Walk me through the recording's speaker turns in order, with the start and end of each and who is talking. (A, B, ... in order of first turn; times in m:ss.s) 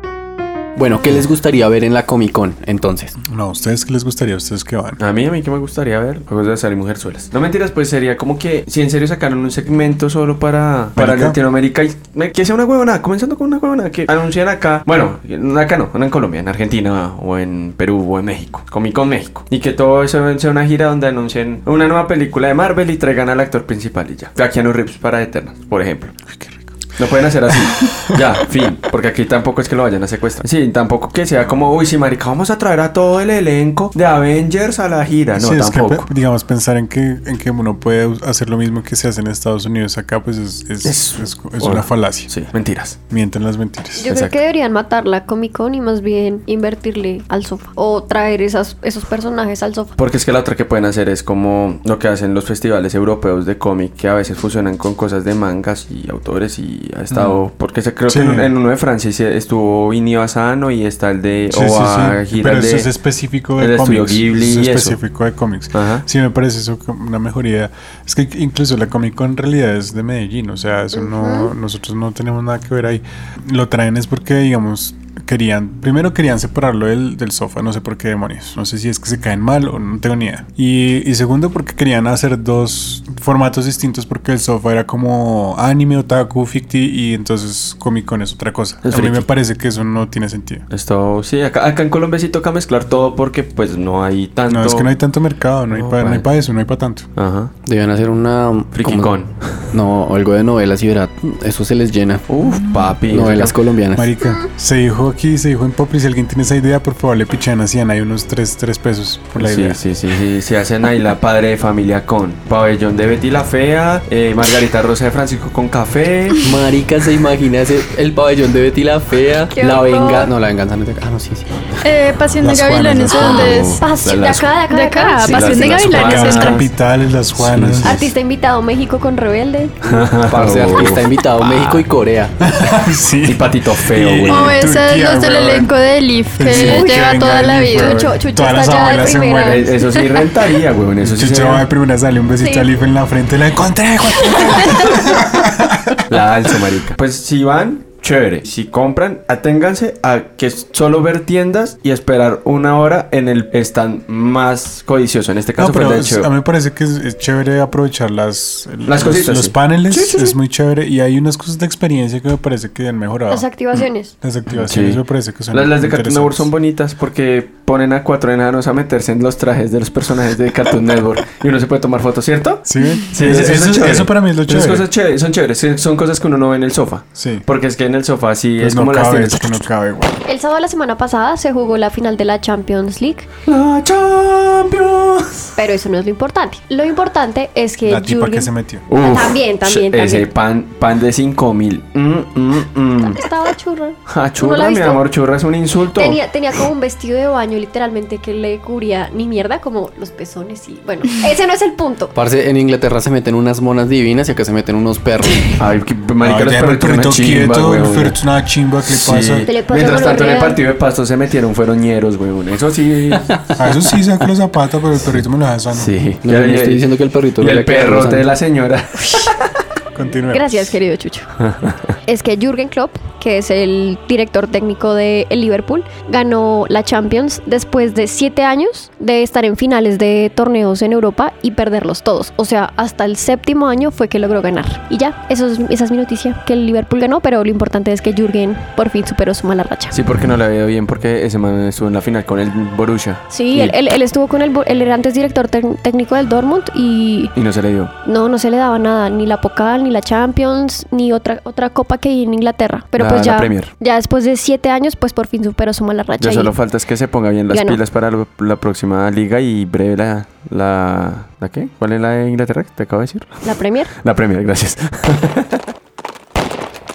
0:00.7-0:03.2 A
0:03.2-0:05.0 B
0:05.0-0:26.1 C
0:11.0-0:11.4 B
0:26.3-0:26.6 B
0:27.0-0:36.1 C
0:27.5-0:28.2 B
0:35.3-0:42.3 B
0:40.8-0:43.0 C
0:43.1-0:44.1 B
0:44.0-0:49.9 D
0:44.0-0:44.4 C
0:50.0-1:02.9 C
0:57.1-0:57.4 B
0:58.1-0:58.5 B
1:01.5-1:30.6 B
1:03.6-1:05.0 C
1:05.7-1:06.0 C
1:10.9-1:11.5 D
1:28.8-1:29.3 C
1:30.7-1:34.9 C
1:34.5-1:37.1 B
1:35.7-1:36.3 C
1:37.2-1:37.5 C
1:37.6-1:39.1 A
1:38.7-1:39.7 C
1:39.7-1:42.2 A
1:42.3-1:43.6 C
1:43.0-1:44.1 A
1:43.9-1:49.8 B
1:49.4-1:56.4 C
1:56.4-2:01.5 A
1:59.5-2:00.3 D
2:01.8-2:03.8 E
2:02.4-2:03.6 B
2:03.1-2:06.2 D
2:03.2-2:04.6 C
2:04.7-2:06.6 E
2:05.2-2:06.6 C
2:05.9-2:08.0 B
2:07.3-2:08.1 C
2:07.8-2:10.0 D
2:09.8-2:11.8 C
2:10.2-2:12.3 A
2:12.4-2:15.7 B
2:13.2-2:14.6 C
2:14.3-2:18.1 E
2:16.4-2:19.7 B
2:16.4-2:20.3 D
2:19.4-2:21.6 C
2:21.0-2:26.5 B
2:22.4-2:22.7 D
2:24.3-2:24.8 D
2:26.1-2:36.3 C
2:35.6-2:43.4 B
2:38.9-2:40.4 C
2:43.3-2:44.1 D
2:44.2-2:46.5 B
2:44.5-2:45.0 C
2:45.5-2:59.6 C
2:52.6-2:54.9 B
2:57.1-2:57.4 B
2:58.6-3:00.1 B
3:00.2-3:03.3 D
3:03.4-3:05.5 C
3:05.6-3:10.3 D
3:07.8-3:08.9 B
3:08.9-3:13.2 C
3:13.0-3:15.0 D
3:14.1-3:16.2 C
3:15.9-3:22.1 D
3:22.1-3:25.5 A
3:25.6-3:28.2 C
3:26.2-3:29.5 B
3:28.8-3:33.3 C
3:29.4-3:30.6 D
3:33.6-3:36.0 B
3:35.7-3:39.5 C
3:36.2-3:38.3 A
3:39.9-3:40.7 B
3:40.3-3:41.3 D
3:41.4-3:41.8 C
3:42.0-4:00.0 D
3:59.9-4:03.8 C
4:03.3-4:07.3 D
4:07.3-4:07.9 C
4:08.0-4:16.5 D
4:13.0-4:13.7 C
4:16.2-4:25.6 C
4:17.5-4:17.8 D
4:23.4-4:23.9 D